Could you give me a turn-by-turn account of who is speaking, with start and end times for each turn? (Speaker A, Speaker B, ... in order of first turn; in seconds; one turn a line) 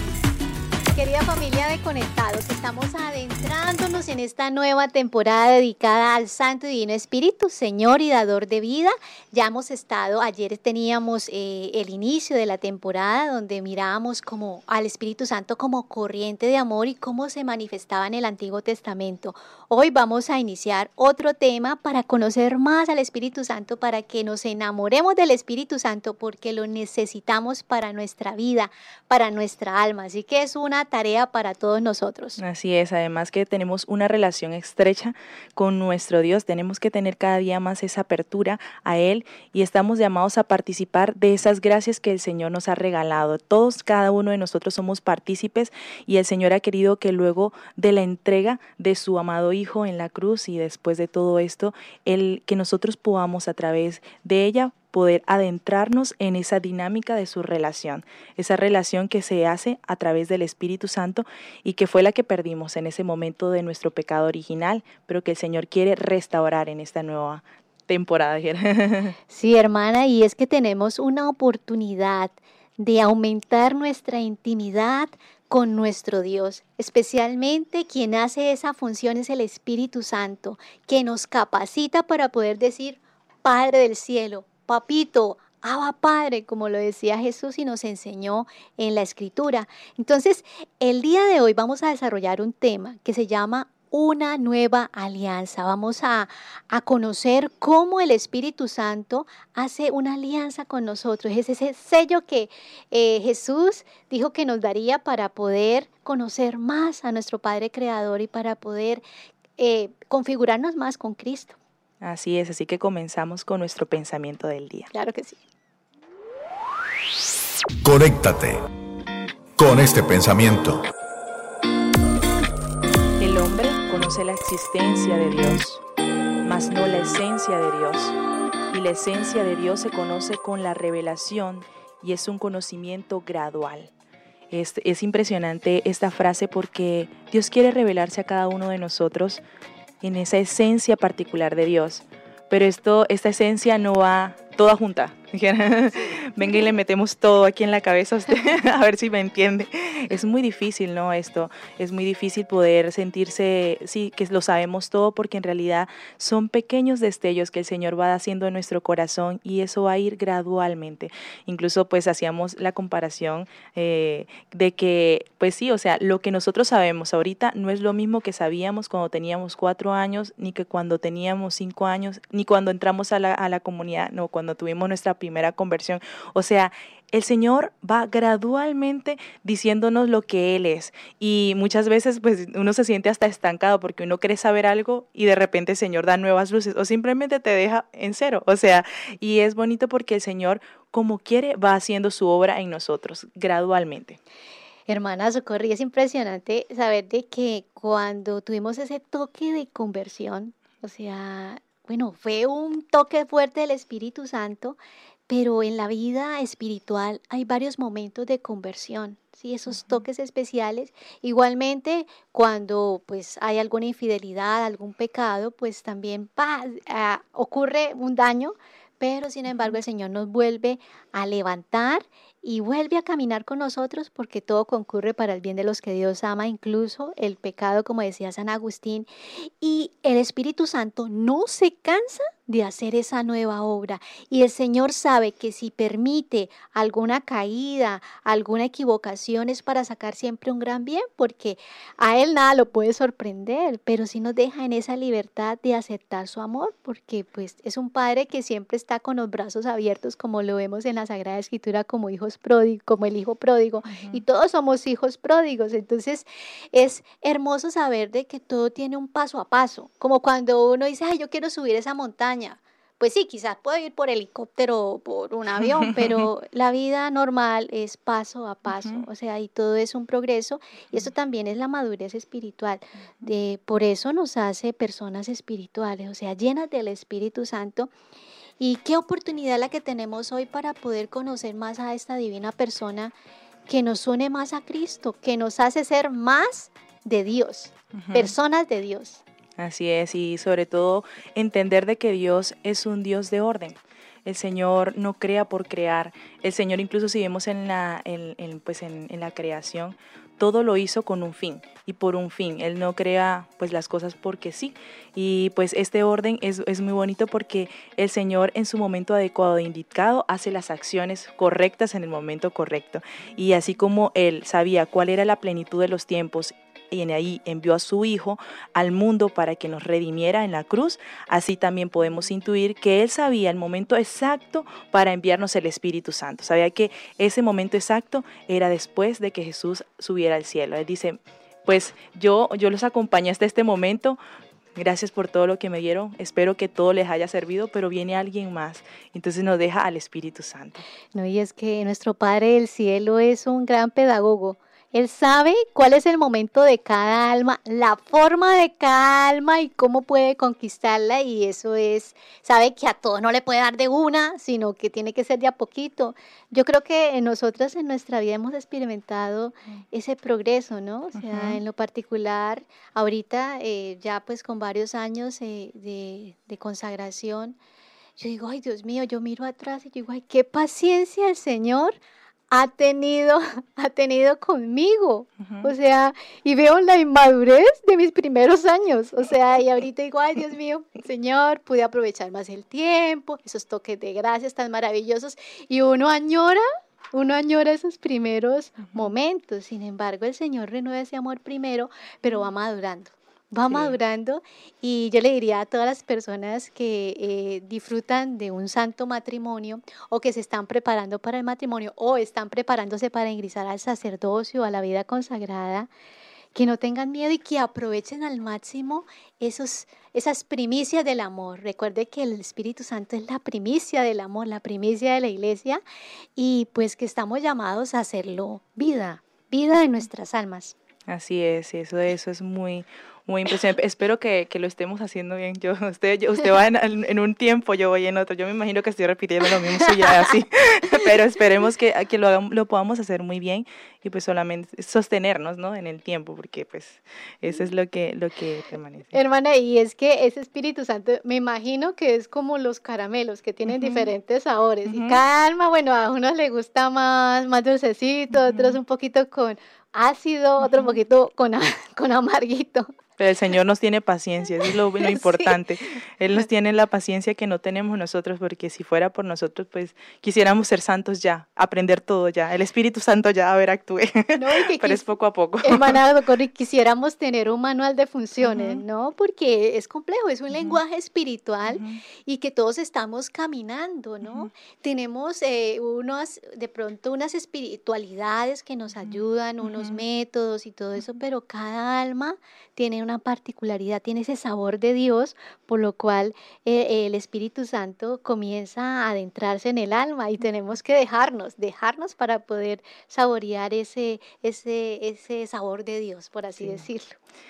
Speaker A: 0.9-32.4
Speaker B: 32.4-69.1
Speaker A: 69.3-109.0
Speaker A: 109.6-111.6
Speaker B: 112.0-114.9
Speaker A: 114.9-115.4
Speaker C: 117.8-118.6
Speaker C: 119.6-120.8
Speaker B: 123.2-125.8
Speaker B: 126.4-128.2
Speaker B: 128.7-133.9
Speaker B: 134.5-139.4
Speaker B: 140.0-194.2
Speaker A: 194.9-204.8
Speaker A: 205.3-277.9
Speaker B: 253.9-254.2
Speaker B: 265.9-266.2
Speaker B: 268.7-269.1
Speaker A: 278.6-283.1
Speaker A: 283.7-289.2
Speaker B: 287.9-288.4
Speaker B: 289.6-334.2
Speaker B: 334.8-340.8
Speaker A: 341.1-367.6
Speaker B: 361.1-361.6
Speaker A: 368.2-372.0
Speaker A: 372.5-405.9
Speaker B: 375.4-375.7
Speaker B: 393.6-394.0
Speaker A: 406.5-415.8
Speaker A: 416.4-420.8
Speaker B: 421.1-439.1
Speaker A: 439.1-452.9
Speaker B: 443.7-444.1
Speaker B: 444.9-445.2
Speaker B: 448.4-448.8
Speaker B: 453.2-466.0
Speaker A: 455.0-455.6
Speaker A: 464.4-465.1
Speaker A: 465.6-497.1
Speaker B: 468.4-468.8
Speaker B: 470.5-470.8
Speaker B: 471.7-472.0
Speaker B: 474.2-474.5
Speaker B: 479.0-480.0